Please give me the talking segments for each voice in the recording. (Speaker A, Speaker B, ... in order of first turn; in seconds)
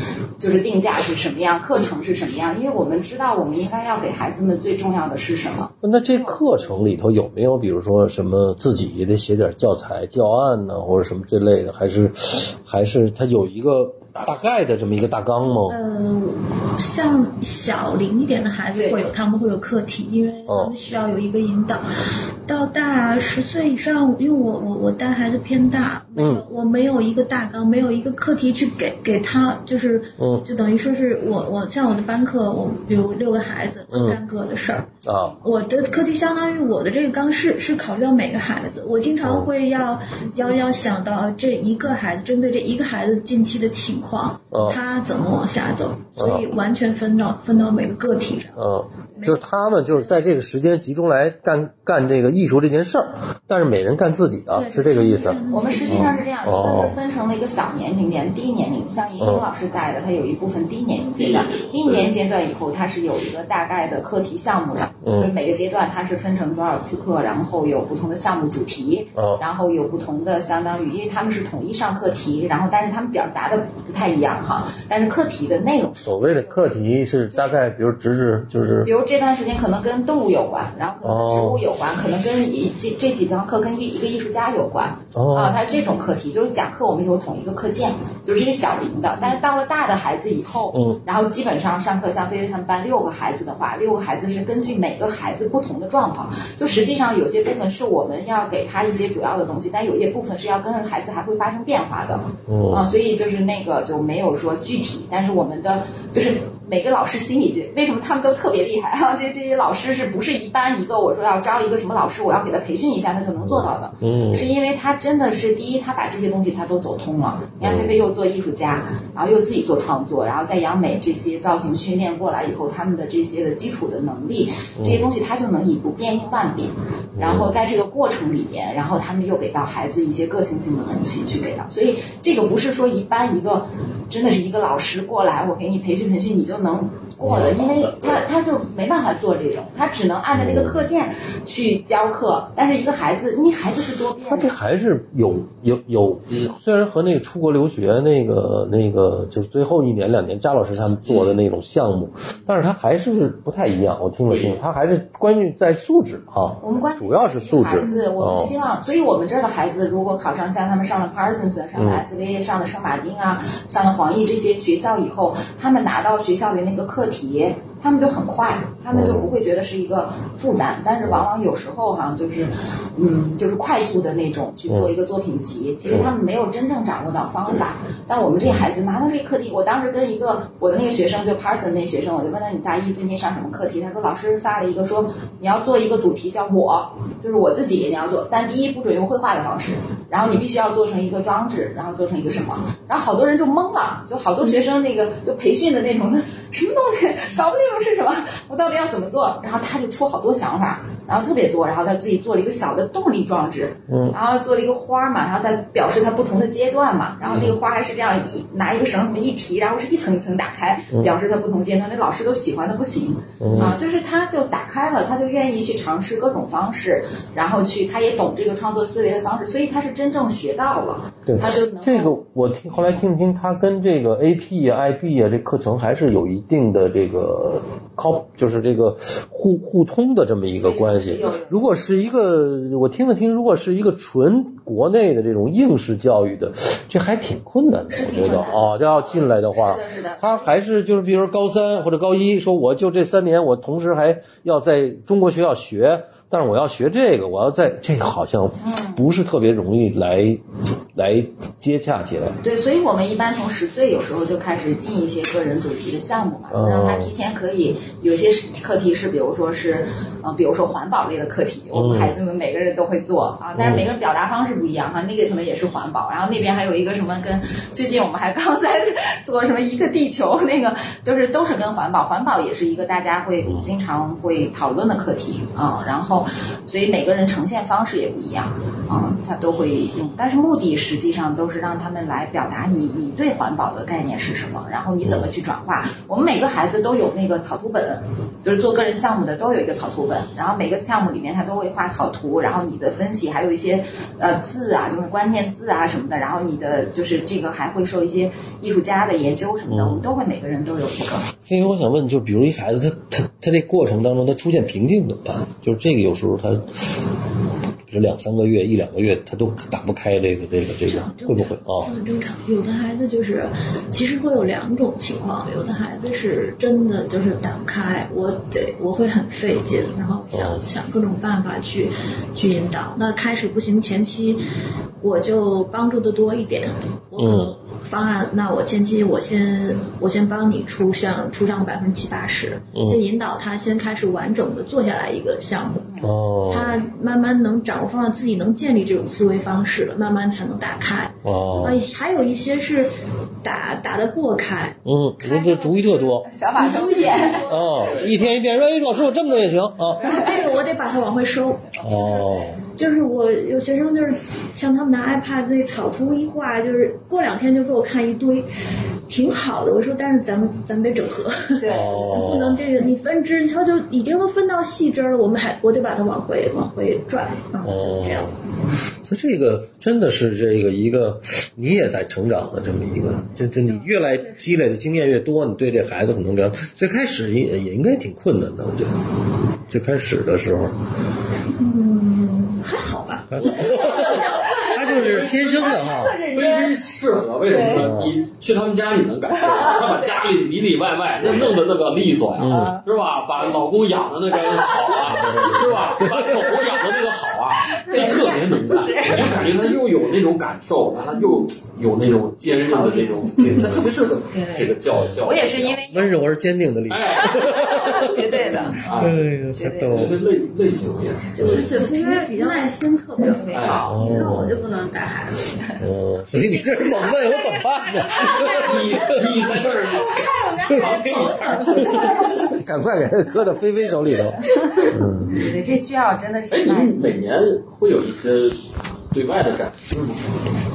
Speaker A: 0.4-6.4, 18.7-19.0, 55.5-76.7, 78.8-144.6, 156.6-222.2, 230.6-231.6, 237.9-240.4, 248.6-249.0, 252.4-301.3, 335.9-336.1, 345.2-345.6, 346.2-347.7, 350.0-350.4, 351.8-352.6, 361.6-362.2, 383.7-386.7, 387.5-387.8, 389.4-390.1, 392.5-392.8, 394.5-395.5, 397.6-399.5, 405.2-406.2, 407.2-409.0, 409.5-410.1, 413.4-413.8, 424.8-427.1
Speaker B: 5.8-15.8, 20.5-20.8, 26.2-26.4, 30.2-30.5, 33.9-34.2, 35.0-35.4, 39.2-39.5, 44.5-44.8, 46.2-46.5, 48.6-57.0, 59.2-59.5, 65.0-65.3, 69.2-69.4, 76.0-78.9, 81.0-81.6, 85.1-85.6, 90.7-91.0, 102.5-102.9, 113.4-114.5, 117.6-118.0, 124.8-125.0, 127.2-127.5, 140.3-140.9, 144.2-158.5, 161.8-162.0, 168.9-169.3, 174.7-174.9, 203.9-204.2, 213.4-213.8, 221.3-250.4, 250.9-252.4, 256.5-257.1, 261.7-262.2, 263.6-263.9, 299.7-300.1, 301.5-306.8, 307.9-311.9, 320.3-320.6, 327.2-327.5, 332.8-333.0, 336.0-336.8, 341.2-341.8, 344.9-346.3, 347.4-350.2, 351.8-352.6, 361.7-362.6, 367.6-368.4, 369.0-379.1, 379.7-380.8, 383.3-386.2, 387.6-388.2, 392.4-392.8, 395.1-396.5, 399.1-399.5, 404.9-405.2, 405.9-410.2, 413.9-414.6, 415.8-419.8, 420.7-425.6
Speaker C: 14.1-14.4, 61.2-62.1, 137.2-138.3, 146.3-146.6, 151.1-151.4, 154.3-154.6, 347.8-348.2, 386.3-405.8, 406.9-408.1, 408.8-409.2, 409.9-411.7, 413.5-414.0, 418.4-422.3, 426.5-430.5
Speaker D: 15.7-48.7, 54.5-56.2, 310.9-324.5, 325.0-344.8, 346.6-348.1, 350.0-351.8, 352.7-358.5, 359.1-368.4, 381.6-385.7, 411.4-412.8
Speaker E: 383.7-386.4, 402.6-403.4, 411.4-415.6, 416.4-422.6, 424.5-425.0